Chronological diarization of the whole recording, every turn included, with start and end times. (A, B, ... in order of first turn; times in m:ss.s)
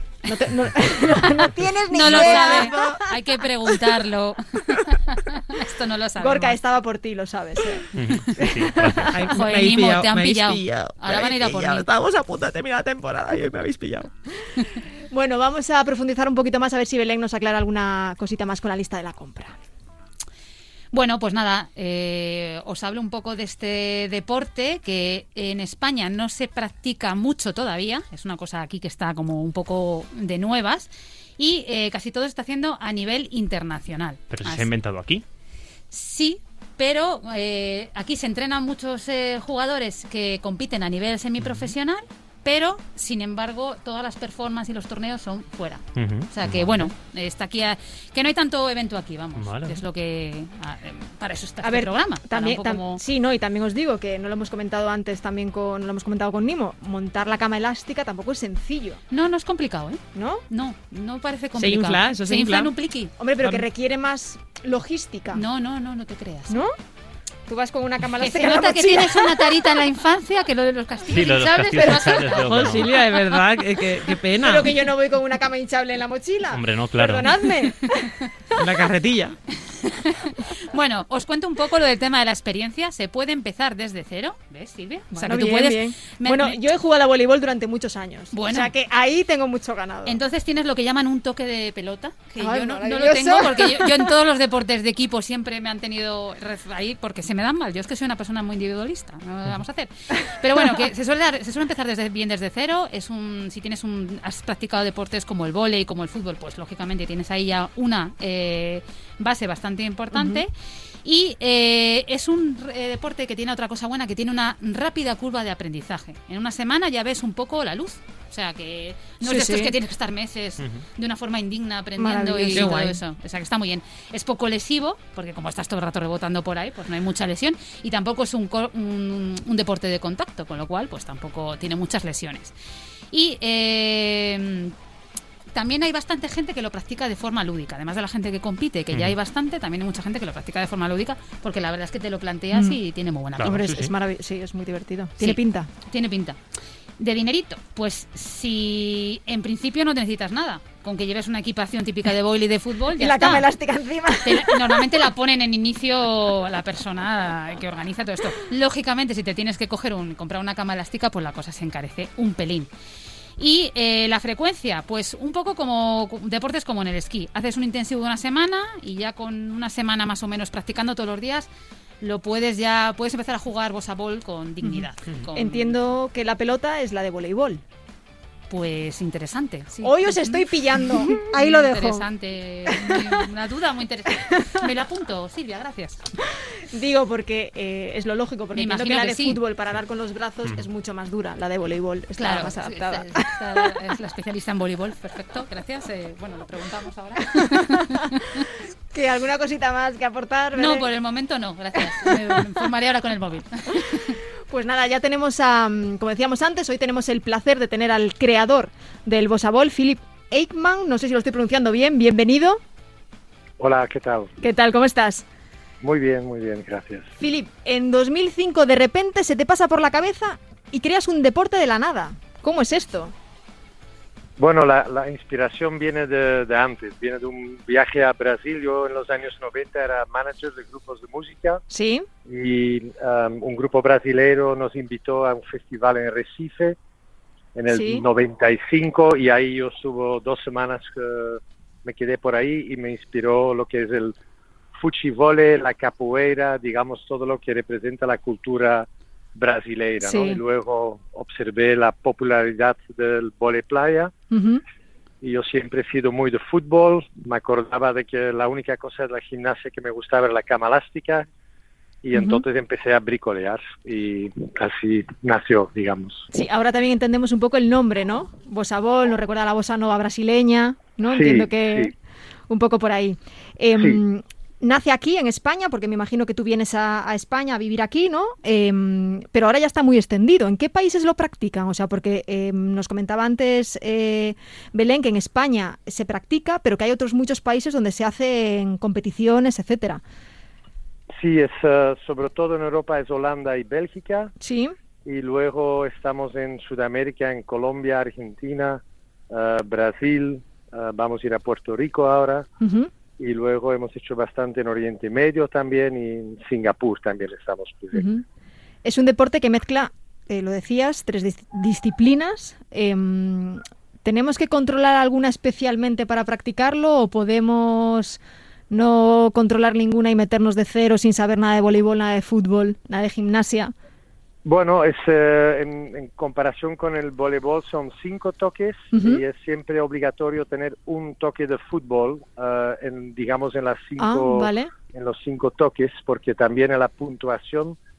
0:00.3-0:03.2 A
0:01.9-0:06.6 B
0:02.1-0:03.0 C
0:06.2-0:07.9 A
0:08.0-0:09.3 D
0:08.4-0:09.0 A
0:09.1-0:14.1 C
0:09.3-0:11.9 B
0:15.1-0:19.6 A
0:20.9-0:34.7 B
0:34.3-0:35.2 D
0:35.9-0:53.0 B
0:41.4-0:41.7 D
0:46.0-0:46.9 D
0:49.4-0:49.8 D
0:51.6-0:59.0 A
0:59.1-1:03.1 B
1:00.2-1:00.4 A
1:01.6-1:02.7 C
1:03.2-1:05.4 A
1:05.3-1:06.6 B
1:06.5-1:06.7 A
1:07.5-1:09.4 A
1:08.2-1:13.5 B
1:11.1-1:12.9 D
1:12.3-1:14.7 C
1:14.3-1:18.1 A
1:16.5-1:17.3 D
1:18.6-1:19.4 C
1:19.7-1:26.6 B
1:25.1-1:30.2 A
1:28.3-1:28.7 B
1:30.0-1:50.5 B
1:32.4-1:34.1 A
1:50.1-1:50.4 A
1:51.0-2:12.5 B
1:59.2-1:59.7 A
2:02.0-2:02.9 A
2:02.5-2:03.0 C
2:13.1-2:14.8 B
2:15.5-2:23.6 B
2:22.5-2:22.8 A
2:23.4-2:23.9 D
2:23.4-2:25.7 A
2:25.2-2:26.4 B
2:27.0-2:33.5 B
2:33.0-2:34.9 A
2:34.2-2:42.7 B
2:43.4-2:51.5 B
2:52.0-2:55.8 B
2:54.6-2:57.6 A
2:58.5-3:06.0 B
2:59.8-3:02.1 A
3:02.7-3:03.2 A
3:04.2-3:04.7 A
3:06.7-3:13.4 A
3:08.5-3:09.4 B
3:12.2-3:18.5 B
3:17.4-3:17.8 A
3:18.9-3:20.9 A
3:20.6-3:24.2 B
3:21.9-3:22.4 A
3:24.5-3:32.6 A
3:33.6-3:34.3 E
3:34.4-3:35.2 A
3:35.8-3:37.1 E
3:37.2-3:43.1 A
3:44.4-3:51.6 E
3:51.7-3:52.1 A
3:52.3-3:56.8 E
3:57.6-4:04.2 E
3:57.7-3:58.0 A
4:04.8-4:14.1 E
4:10.0-4:10.4 A
4:14.3-4:14.6 A
4:15.2-4:21.3 E
4:22.0-4:26.3 E
4:22.1-4:22.4 A
4:26.3-4:31.9 A
4:31.1-4:31.9 E
4:32.5-4:50.0 A
4:51.2-4:54.3 E
4:54.4-4:54.7 A
4:55.0-5:02.5 E
5:02.6-5:02.9 A
5:03.2-5:08.1 E
5:07.9-5:08.2 A
5:08.8-5:23.7 A
5:24.4-5:37.8 E
5:28.9-5:29.2 A
5:34.0-5:34.7 A